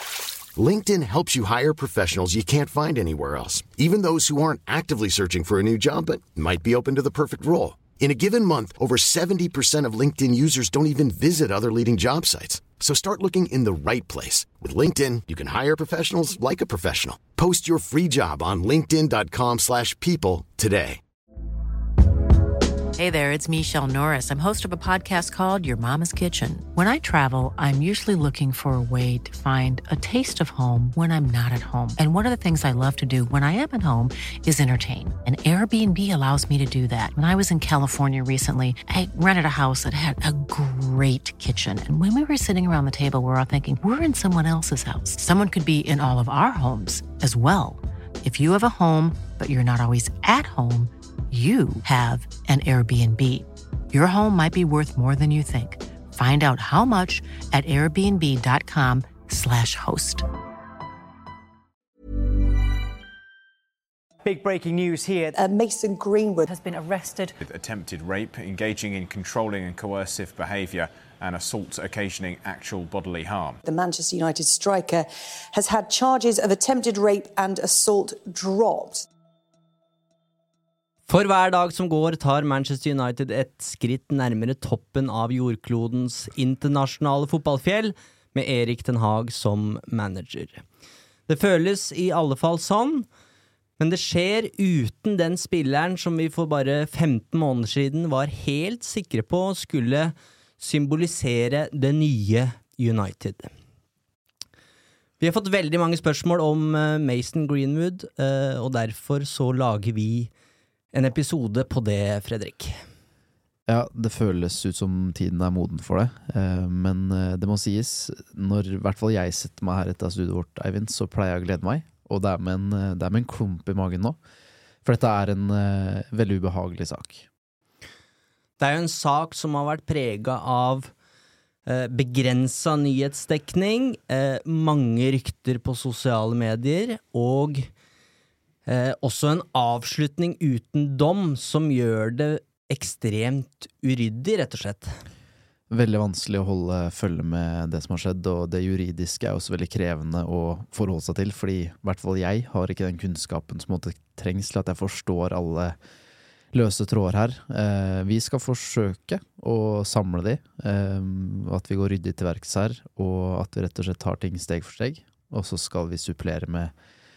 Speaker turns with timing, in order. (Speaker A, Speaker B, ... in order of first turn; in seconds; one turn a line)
Speaker A: 0.6-21.0
Speaker B: 22.9-60.2
Speaker C: 64.2-65.4
Speaker D: 65.3-66.5
Speaker C: 66.5-67.3
Speaker E: 67.4-73.6
Speaker D: 73.6-79.0
Speaker F: 81.1-90.6
Speaker F: 91.3-93.1
Speaker F: 93.8-103.5
Speaker F: 105.2-110.3
Speaker F: 110.9-112.8
Speaker G: 113.7-124.2
Speaker G: 124.8-127.3
Speaker F: 128.6-130.9
Speaker F: 131.7-137.7
Speaker F: 138.7-145.0
Speaker G: 145.7-155.8
Speaker G: 156.5-166.7